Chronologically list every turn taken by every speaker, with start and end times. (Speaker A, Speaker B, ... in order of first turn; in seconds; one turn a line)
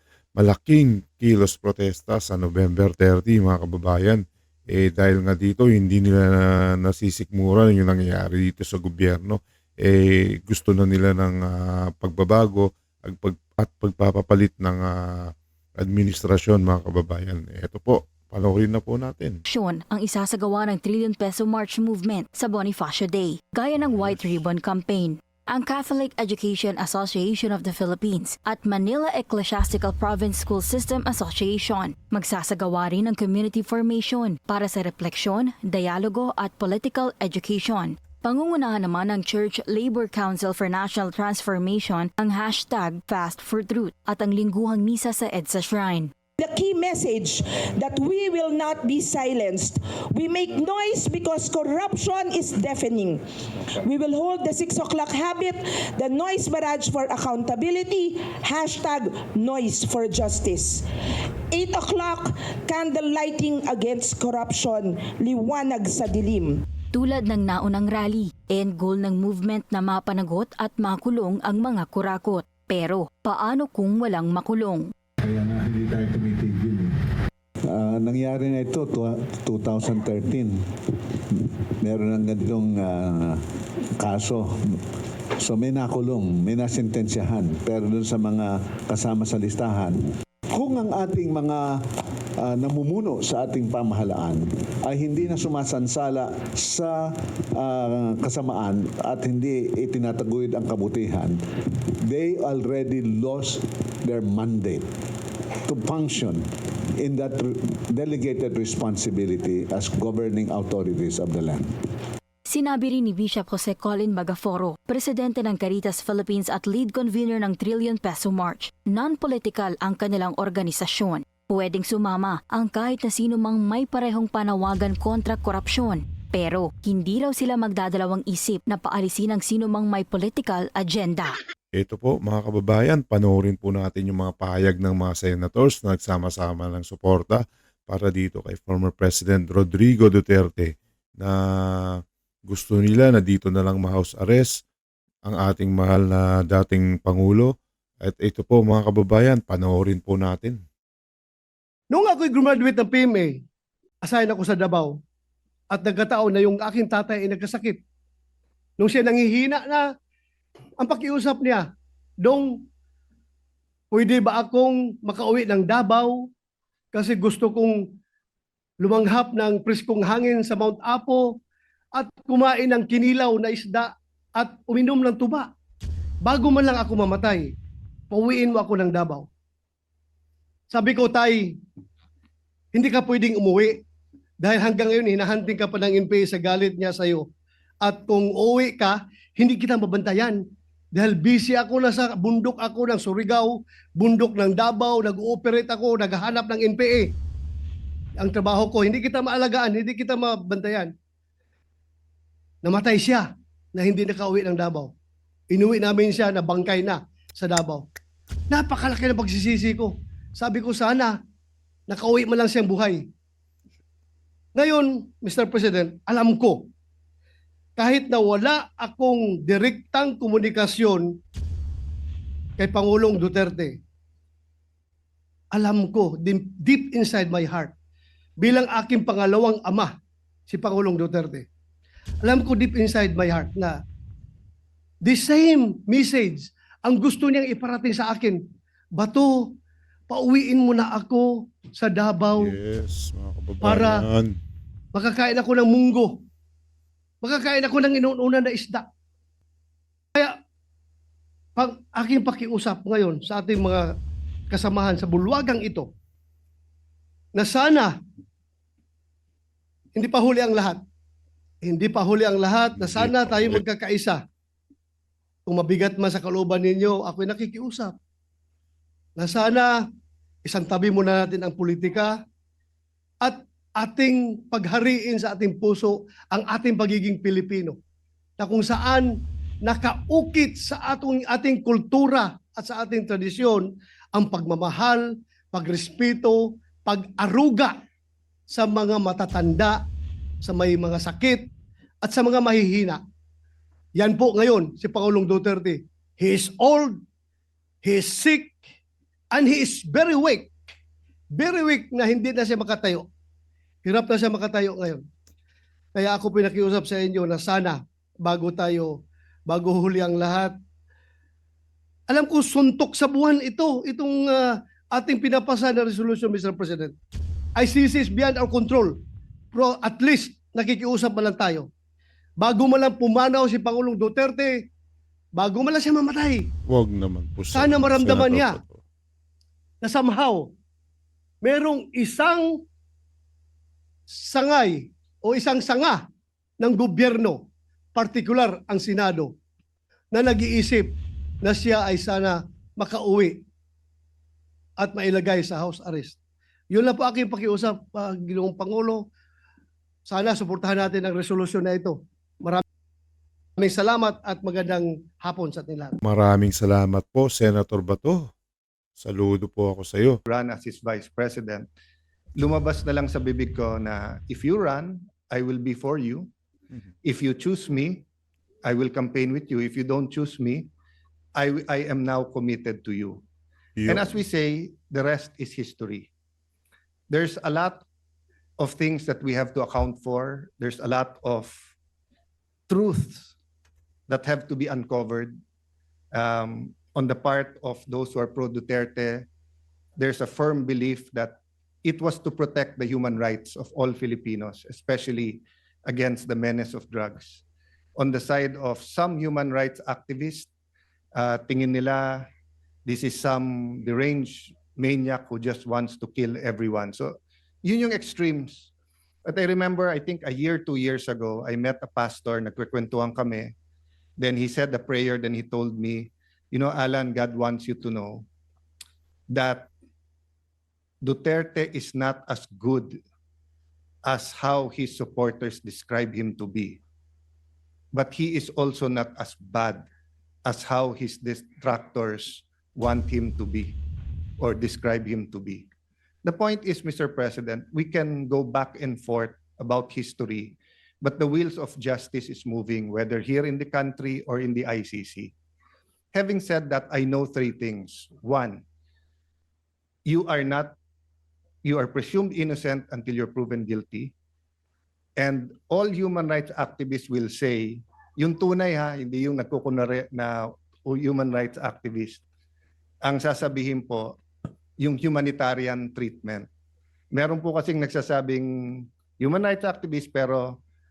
Speaker A: 0.4-4.2
Speaker A: 4.7-14.9
Speaker A: 15.8-19.4
Speaker B: 19.5-46.1
Speaker C: 46.4-60.9
Speaker C: 61.5-66.6
Speaker B: 66.9-74.9
Speaker D: 75.2-76.9
Speaker D: 77.7-83.4
Speaker D: 84.0-84.8
Speaker D: 85.4-91.8
Speaker D: 92.4-101.4
Speaker D: 101.9-104.9
Speaker D: 105.7-106.5
Speaker D: 107.0-111.7
Speaker B: 112.5-131.4
Speaker A: 131.7-141.3
Speaker A: 141.9-144.5
Speaker A: 145.2-150.6
Speaker E: 151.9-153.4
Speaker E: 154.0-155.0
Speaker E: 155.7-157.8
Speaker E: 158.8-159.9
Speaker E: 160.8-162.7
Speaker E: 163.9-166.3
Speaker E: 166.9-167.9
Speaker E: 168.8-171.4
Speaker E: 171.9-175.5
Speaker E: 176.2-177.6
Speaker E: 178.1-179.3
Speaker E: 180.7-181.6
Speaker E: 182.7-183.8
Speaker E: 184.4-187.3
Speaker E: 187.8-197.2
Speaker E: 198.2-200.9
Speaker E: 202.6-204.9
Speaker E: 205.5-207.9
Speaker E: 208.5-211.2
Speaker E: 211.9-213.1
Speaker E: 214.5-216.7
Speaker E: 217.8-221.2
Speaker E: 222.6-223.8
Speaker E: 225.5-227.7
Speaker E: 228.4-230.0
Speaker E: 230.5-231.5
Speaker E: 232.2-233.8
Speaker E: 235.0-239.6
Speaker E: 240.1-242.5
Speaker A: 242.3-244.3
Speaker E: 243.6-244.0
Speaker E: 244.9-246.2
Speaker E: 247.2-248.9
Speaker E: 251.6-253.9
Speaker E: 254.5-255.9
Speaker E: 257.3-257.9
Speaker E: 259.9-260.8
Speaker E: 261.6-264.2
Speaker A: 262.7-263.6
Speaker E: 265.5-268.0
Speaker E: 269.2-269.8
Speaker E: 270.4-272.2
Speaker E: 273.2-277.8
Speaker E: 278.4-287.9
Speaker E: 288.5-289.9
Speaker E: 290.4-291.5
Speaker E: 292.0-293.0
Speaker E: 293.9-297.0
Speaker E: 297.8-298.6
Speaker E: 299.3-300.5
Speaker E: 301.3-303.1
Speaker E: 303.8-305.1
Speaker E: 305.9-310.6
Speaker E: 312.1-317.0
Speaker E: 317.6-319.0
Speaker E: 319.5-321.7
Speaker E: 322.4-324.7
Speaker E: 325.3-326.5
Speaker A: 326.7-328.8
Speaker E: 327.5-328.6
Speaker E: 329.8-330.5
Speaker E: 331.4-332.6
Speaker E: 334.1-336.1
Speaker E: 336.6-339.4
Speaker E: 340.1-343.4
Speaker E: 344.8-346.2
Speaker E: 346.7-349.1
Speaker E: 350.1-352.6
Speaker E: 353.6-355.9
Speaker A: 356.0-358.3
Speaker A: 359.0-360.2
Speaker F: 360.3-361.7
Speaker F: 362.4-366.3
Speaker F: 367.0-368.1
Speaker F: 368.6-370.7
Speaker F: 371.4-373.2
Speaker A: 373.8-374.1
Speaker F: 373.9-376.1
Speaker F: 377.1-377.9
Speaker F: 378.6-381.6
Speaker F: 382.7-383.3
Speaker F: 384.1-385.4
Speaker F: 386.1-389.3
Speaker F: 390.0-397.4
Speaker F: 398.0-400.5
Speaker F: 401.2-402.3
Speaker F: 402.9-408.7
Speaker F: 409.3-413.5
Speaker F: 414.2-418.3
Speaker F: 419.3-419.7
Speaker F: 421.0-423.0
Speaker F: 424.1-426.8
Speaker F: 427.9-429.9
Speaker F: 430.5-433.8
Speaker F: 434.4-435.7
Speaker F: 436.2-445.3
Speaker F: 446.1-448.6
Speaker F: 450.1-450.8
Speaker F: 451.6-454.1
Speaker F: 455.2-462.2
Speaker F: 463.0-464.2
Speaker F: 464.8-466.5
Speaker F: 467.1-470.6